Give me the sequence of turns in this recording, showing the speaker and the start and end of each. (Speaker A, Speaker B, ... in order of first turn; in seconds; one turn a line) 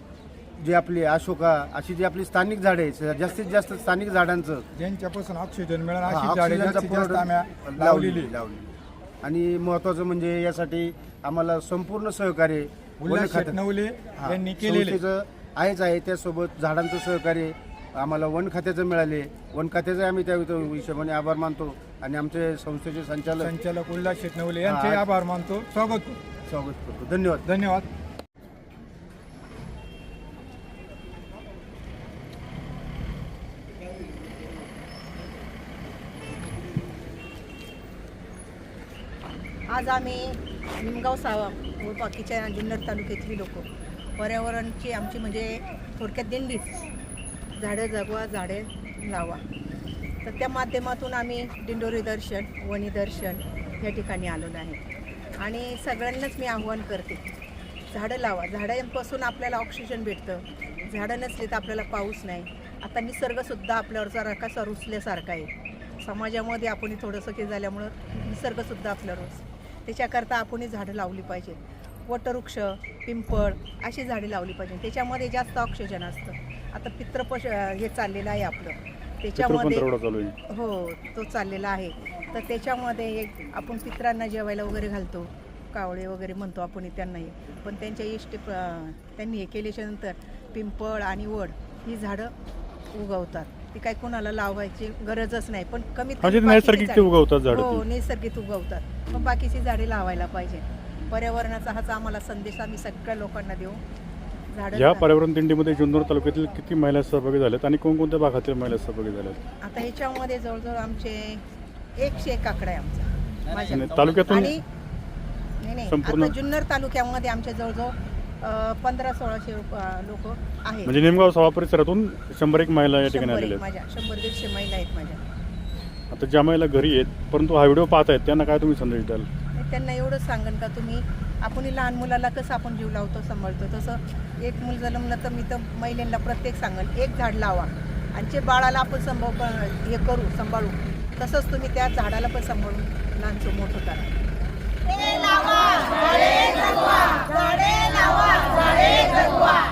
Speaker A: 0.6-4.6
Speaker B: 4.7-8.3
Speaker A: 6.0-13.6
Speaker B: 13.0-15.0
Speaker A: 14.2-23.5
Speaker B: 23.4-26.2
Speaker A: 24.6-25.0
Speaker A: 26.4-27.4
Speaker B: 27.5-27.9
Speaker C: 39.7-46.8
Speaker C: 47.6-49.4
Speaker C: 50.2-54.8
Speaker C: 55.4-57.2
Speaker C: 57.9-65.5
Speaker C: 66.0-79.9
Speaker D: 79.4-80.3
Speaker C: 80.5-92.3
Speaker C: 92.9-103.8
Speaker D: 96.2-97.8
Speaker C: 104.5-105.1
Speaker D: 104.7-109.4
Speaker C: 109.6-111.4
Speaker C: 112.0-114.6
Speaker D: 113.7-114.5
Speaker C: 115.6-120.9
Speaker D: 115.9-116.3
Speaker D: 120.8-123.6
Speaker C: 123.1-125.2
Speaker D: 126.1-129.3
Speaker C: 129.5-144.2